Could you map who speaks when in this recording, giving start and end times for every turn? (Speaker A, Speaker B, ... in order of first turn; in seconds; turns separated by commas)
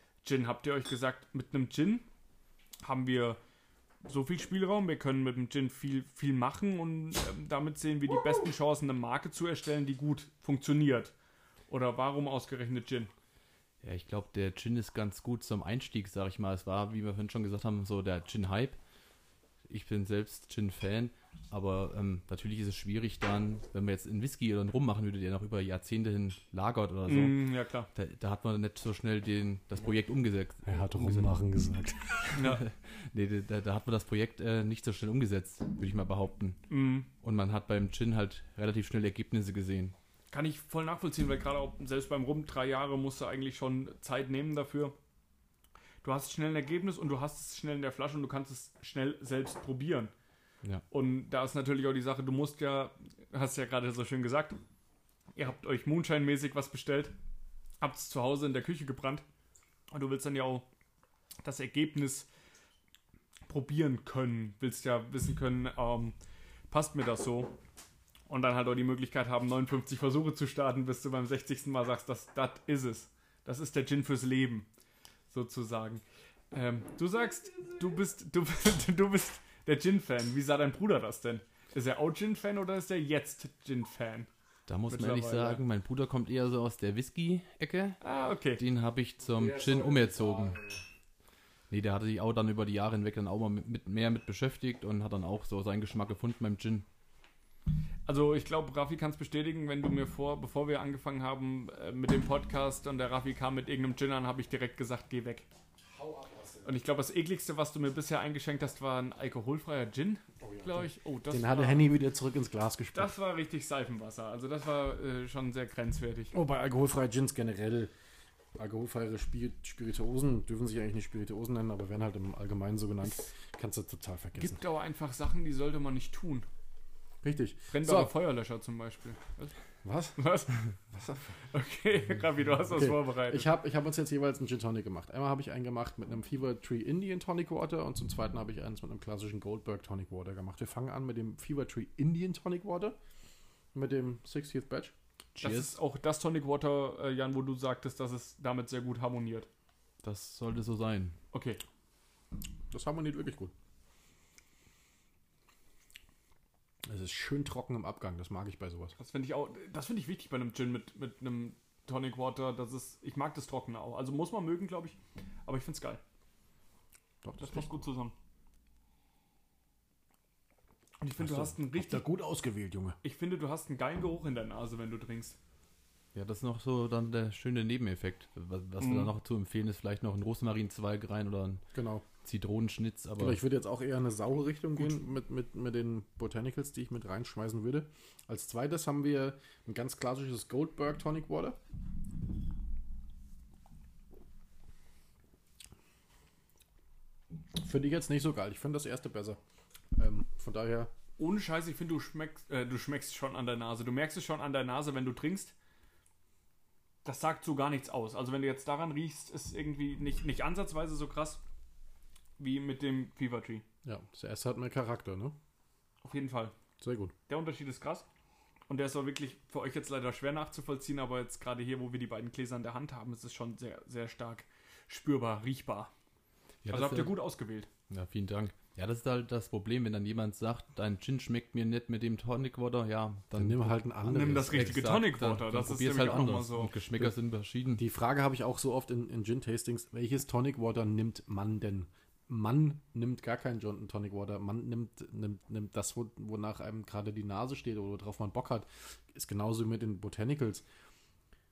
Speaker A: 0.2-2.1, Speaker A: 2.8-3.4, Speaker A: 4.0-11.1, Speaker A: 11.7-13.1, Speaker B: 13.8-18.8, Speaker B: 19.7-31.4, Speaker A: 27.1-27.9, Speaker C: 30.6-32.4, Speaker A: 32.3-32.6, Speaker B: 32.4-36.6, Speaker A: 36.7-37.1, Speaker B: 37.2-40.0, Speaker A: 40.3-45.0, Speaker A: 46.0-50.1, Speaker A: 50.9-54.6, Speaker A: 55.4-57.1, Speaker A: 57.8-59.2, Speaker A: 59.9-60.6, Speaker A: 61.4-62.3, Speaker A: 63.5-66.2, Speaker A: 66.7-67.6, Speaker A: 68.3-74.7, Speaker A: 75.3-84.3, Speaker B: 84.7-88.0, Speaker A: 84.9-85.6, Speaker A: 88.0-88.6, Speaker B: 88.5-90.6, Speaker C: 89.3-90.8, Speaker B: 91.7-96.9, Speaker A: 98.1-105.5, Speaker C: 105.8-106.7, Speaker A: 106.6-111.9, Speaker C: 110.4-113.1, Speaker A: 112.9-116.3, Speaker C: 116.3-117.9, Speaker C: 118.5-124.6, Speaker A: 124.4-126.5, Speaker C: 127.2-128.1, Speaker A: 127.7-129.5, Speaker C: 129.8-130.2, Speaker A: 130.2-130.6, Speaker C: 130.9-131.4, Speaker A: 131.5-133.5, Speaker C: 132.7-143.0, Speaker C: 143.7-144.9, Speaker B: 145.4-145.7, Speaker A: 145.4-149.5, Speaker B: 150.0-151.2, Speaker A: 151.3-151.6, Speaker C: 152.7-153.5, Speaker C: 156.9-159.0, Speaker A: 159.0-166.0, Speaker C: 167.2-167.8, Speaker A: 167.4-168.1, Speaker A: 171.0-172.1, Speaker C: 171.2-173.0, Speaker A: 173.0-175.4, Speaker B: 176.1-181.6, Speaker A: 178.8-179.1, Speaker C: 181.7-182.1, Speaker B: 182.2-183.4, Speaker C: 183.2-191.6, Speaker C: 197.6-199.4, Speaker C: 199.9-200.9, Speaker A: 201.2-205.5, Speaker A: 207.1-211.4, Speaker A: 212.4-213.6, Speaker C: 213.8-215.4, Speaker A: 216.0-216.6, Speaker C: 216.8-217.1, Speaker A: 217.3-218.1, Speaker A: 218.7-225.9, Speaker B: 226.6-227.2, Speaker A: 226.7-227.7, Speaker B: 227.9-237.8, Speaker C: 233.3-234.7, Speaker A: 234.1-236.7, Speaker C: 237.8-250.6